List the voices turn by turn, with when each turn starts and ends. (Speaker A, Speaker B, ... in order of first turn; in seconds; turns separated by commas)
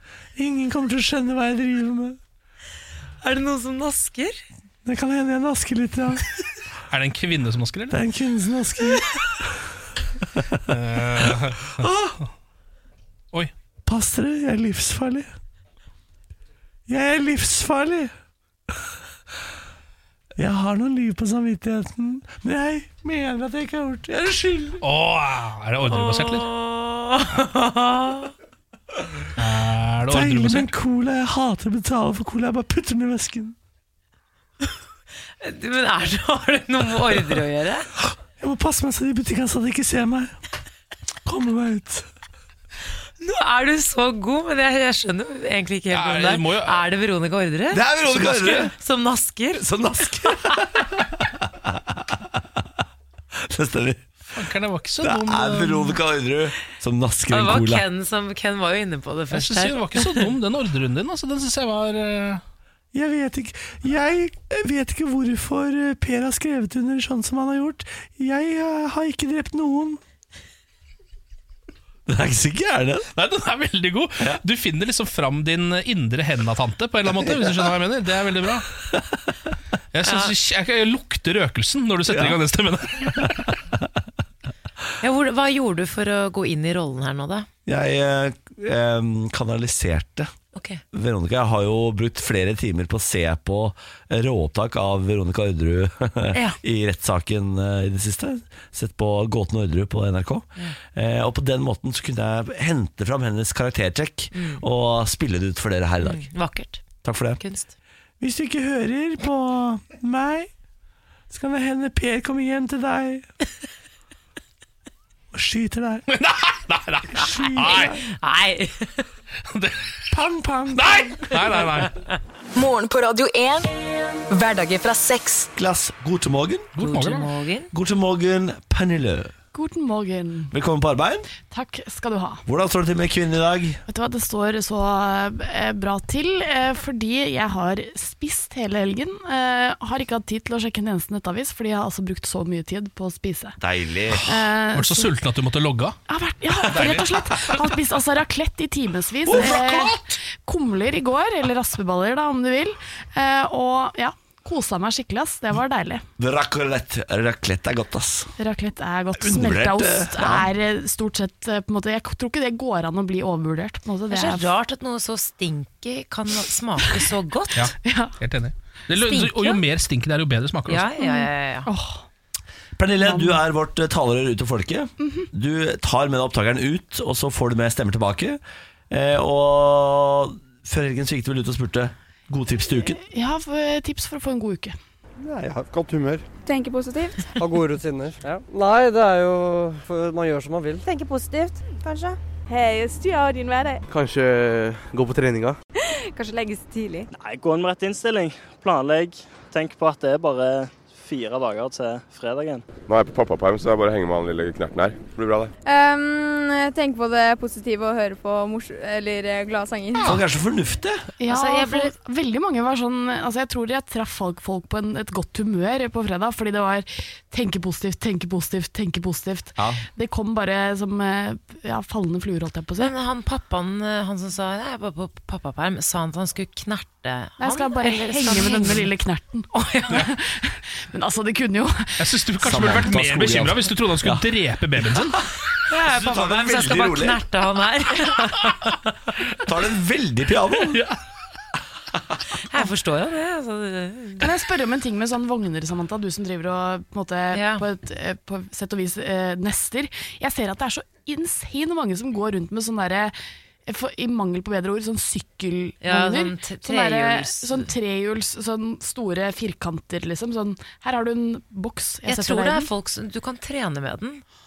Speaker A: 0.4-2.2, Speaker B: 3.2-4.4, Speaker A: 4.9-6.3, Speaker C: 6.9-8.0, Speaker A: 7.9-9.2, Speaker C: 10.7-11.9, Speaker A: 11.2-12.2, Speaker A: 13.9-15.3, Speaker A: 16.9-18.1, Speaker A: 20.4-24.8, Speaker C: 24.8-26.5, Speaker B: 25.8-28.3, Speaker C: 29.4-30.7, Speaker A: 30.1-33.5, Speaker B: 35.4-37.9, Speaker A: 38.4-40.4, Speaker A: 41.3-42.1, Speaker B: 43.2-47.8, Speaker C: 45.9-46.8, Speaker A: 47.7-48.7, Speaker C: 48.1-48.7, Speaker B: 48.7-49.7, Speaker A: 49.6-52.2, Speaker A: 53.5-54.1, Speaker C: 54.3-56.0, Speaker A: 55.0-57.8, Speaker B: 57.3-60.2, Speaker C: 59.3-62.4, Speaker A: 62.9-70.0, Speaker A: 72.1-73.1, Speaker C: 73.1-78.7, Speaker C: 79.9-83.5, Speaker B: 80.0-80.3, Speaker A: 82.1-82.4, Speaker B: 85.0-87.5, Speaker A: 87.7-90.3, Speaker B: 90.5-90.8, Speaker A: 90.9-106.3, Speaker B: 96.3-96.6, Speaker B: 104.3-104.6, Speaker B: 106.0-106.8, Speaker A: 107.0-107.4, Speaker B: 107.4-107.7, Speaker A: 108.2-110.5, Speaker A: 111.3-113.3, Speaker A: 115.3-116.1, Speaker C: 116.1-118.0, Speaker A: 117.2-117.9, Speaker B: 117.6-119.0, Speaker C: 119.5-119.9, Speaker A: 120.1-121.3, Speaker C: 120.7-122.0, Speaker B: 121.4-122.0, Speaker D: 122.5-123.7, Speaker D: 124.3-125.5, Speaker A: 125.6-126.7, Speaker C: 126.8-127.3, Speaker B: 126.8-127.7, Speaker A: 127.7-129.3, Speaker E: 129.5-130.5, Speaker A: 130.5-131.2, Speaker E: 131.5-132.4, Speaker A: 132.5-133.8, Speaker E: 133.9-143.6, Speaker A: 143.6-144.2, Speaker E: 144.2-145.1, Speaker C: 144.7-146.0, Speaker E: 146.1-156.0, Speaker C: 146.7-147.7, Speaker A: 149.3-150.0, Speaker C: 149.3-149.6, Speaker A: 156.2-158.3, Speaker E: 158.4-164.5, Speaker A: 159.2-160.5, Speaker B: 164.1-167.7, Speaker C: 167.6-170.9, Speaker E: 167.8-168.2, Speaker B: 168.9-169.6, Speaker B: 170.7-171.7, Speaker E: 171.0-172.0, Speaker A: 172.8-178.4, Speaker E: 173.0-173.4, Speaker E: 175.0-175.3, Speaker A: 178.9-183.0, Speaker E: 182.8-184.8, Speaker F: 185.2-186.2, Speaker G: 186.5-187.3, Speaker F: 187.4-190.8, Speaker G: 190.8-193.8, Speaker F: 193.9-195.6, Speaker G: 195.9-197.1, Speaker H: 197.1-202.6, Speaker I: 202.9-205.5, Speaker G: 205.7-210.1, Speaker A: 210.0-211.1, Speaker E: 211.2-222.9, Speaker B: 211.3-211.9, Speaker A: 219.6-219.8, Speaker B: 222.8-228.9, Speaker E: 227.4-232.1, Speaker B: 229.5-230.1, Speaker C: 232.0-235.2, Speaker A: 232.4-234.2, Speaker B: 235.7-238.9, Speaker A: 235.9-237.2, Speaker A: 239.5-240.8, Speaker C: 240.6-241.0, Speaker B: 242.4-244.3, Speaker E: 244.2-253.2, Speaker B: 247.3-247.7, Speaker E: 253.7-262.7, Speaker B: 255.8-257.7, Speaker B: 262.1-264.2